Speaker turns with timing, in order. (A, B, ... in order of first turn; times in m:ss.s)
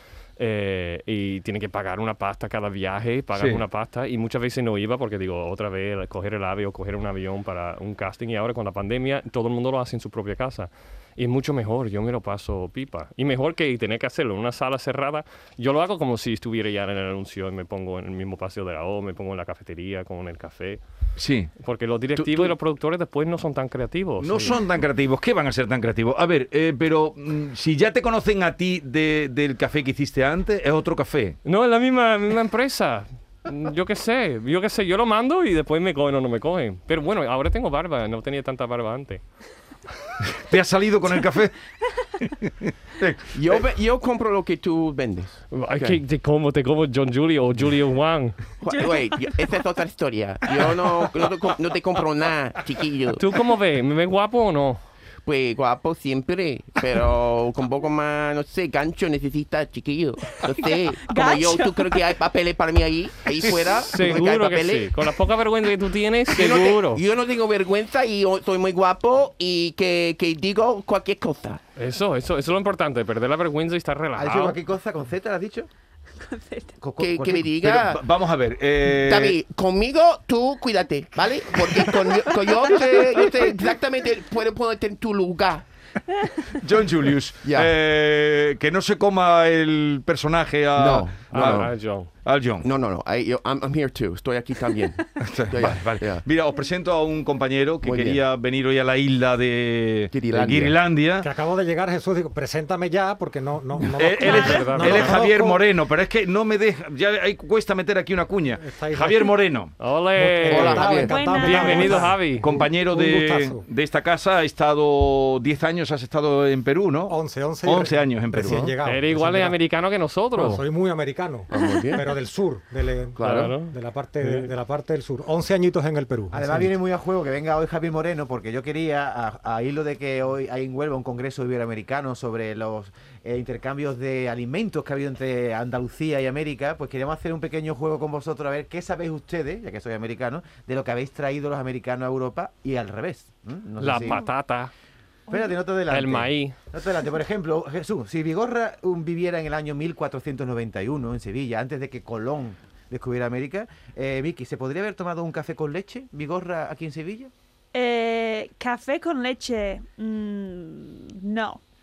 0:00.4-0:20.8 A
0:03.4-0:03.6 B
0:21.2-0:21.5 B
0:21.6-0:24.6 A
0:22.2-0:22.5 C
0:24.2-0:31.4 B
0:31.4-0:39.2 A
0:40.4-0:41.6 B
0:42.2-0:43.6 B
0:43.3-0:46.0 C
0:45.5-0:48.4 A
0:48.6-0:53.2 C
0:48.7-0:49.5 D
0:53.2-0:54.8 A
0:55.2-1:05.1 C
1:00.3-1:02.0 D
1:03.8-1:07.0 A
1:06.3-1:11.6 C
1:11.8-1:14.6 A
1:14.2-1:15.7 E
1:16.2-1:16.8 D
1:16.8-1:17.5 E
1:17.0-1:18.0 C
1:17.6-1:19.4 B
1:18.9-1:25.6 C
1:26.6-1:32.7 B
1:27.4-1:27.7 C
1:30.8-1:31.7 C
1:31.3-1:32.1 A
1:32.6-1:36.2 C
1:35.2-1:41.3 B
1:37.8-1:38.2 C
1:40.1-1:40.8 C
1:41.2-1:44.7 F
1:43.8-1:49.8 B
1:44.2-1:45.0 D
1:44.4-1:45.1 A
1:44.8-1:45.6 E
1:48.6-1:49.4 F
1:49.8-1:52.4 A
1:50.1-1:53.6 F
1:50.5-1:51.2 C
1:50.9-1:52.1 D
1:52.4-1:58.7 B
1:57.1-1:59.6 F
1:58.4-1:58.7 C
1:58.8-2:00.6 A
2:00.4-2:06.7 F
2:01.5-2:02.1 C
2:01.6-2:02.0 D
2:03.2-2:03.5 C
2:03.2-2:03.7 A
2:06.3-2:24.2 E
2:23.8-2:24.7 A
2:25.3-2:37.3 E
2:25.9-2:26.6 A
2:37.7-2:41.6 D